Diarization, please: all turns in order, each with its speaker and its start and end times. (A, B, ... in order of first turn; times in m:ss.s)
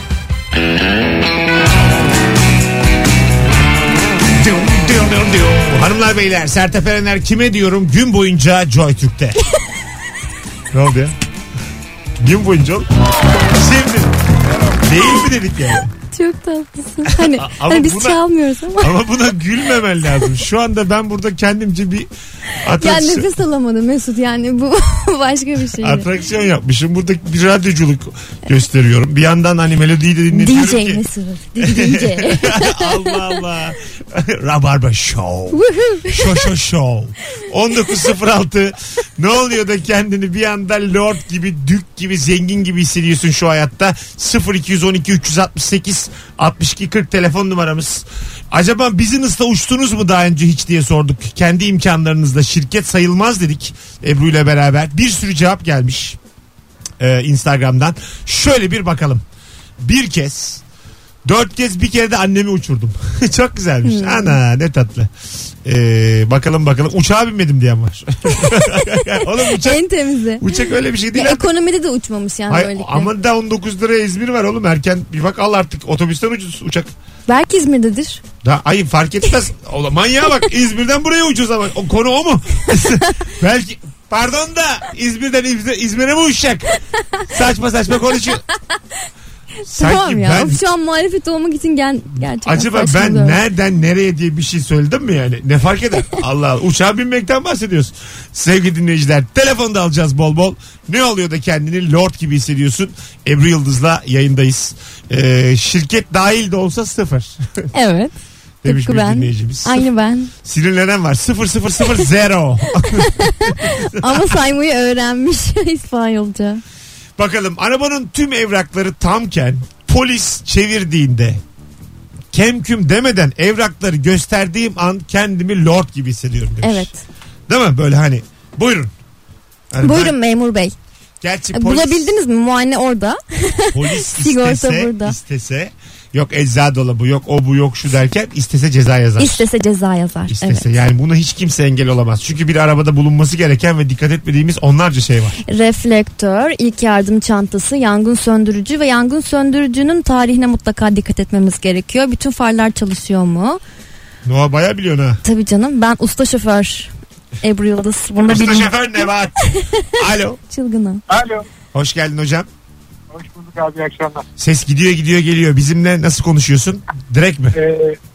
0:04.4-0:09.4 A
0:10.7-0:11.2 A
0:12.2-0:12.9 A
0:13.5-0:14.2 A
0:14.8-0:15.9 A
0:16.1-0:18.9 B
0:17.1-0:18.2 A
0:18.8-0:22.1 A
0:22.6-0:23.3 A
0:22.8-0:26.1 B
0:25.8-0:31.0 A
0:30.3-0:33.1 B
0:31.6-0:56.2 A
0:35.5-0:36.3 B
0:57.0-0:59.2 A
0:59.8-1:00.6 A
1:01.2-1:05.1 A
1:03.8-1:04.4 B
1:05.6-1:09.8 A
1:09.5-1:10.5 B
1:10.4-1:11.4 A
1:11.1-1:13.1 B
1:12.5-1:16.9 A
1:17.3-1:18.2 B
1:18.4-1:26.7 A
1:27.3-1:28.4 A
1:29.6-1:30.6 A
1:29.7-1:33.4 B
1:32.4-1:47.7 A
1:47.7-1:48.1 B
1:48.6-1:49.9 A
1:48.6-1:50.3 B
1:50.4-1:54.4 A
1:52.8-1:56.6 B
1:57.2-2:01.4 A
2:02.3-2:06.9 A
2:06.6-2:07.0 B
2:07.5-2:08.9 A
2:09.7-2:10.2 A
2:09.8-2:10.8 B
2:11.2-2:12.1 A
2:11.5-2:15.2 B
2:13.7-2:19.5 A
2:19.2-2:20.7 B
2:20.3-2:25.4 A
2:25.5-2:33.6 B
2:34.2-2:35.2 A
2:35.2-2:38.8 B
2:38.2-2:39.4 A
2:39.6-2:39.8 B
2:39.9-2:40.4 A
2:40.5-2:41.0 B
2:41.1-2:41.4 C
2:41.7-2:42.5 A
2:43.1-2:44.2 C
2:44.4-2:47.6 A
2:47.5-2:48.0 C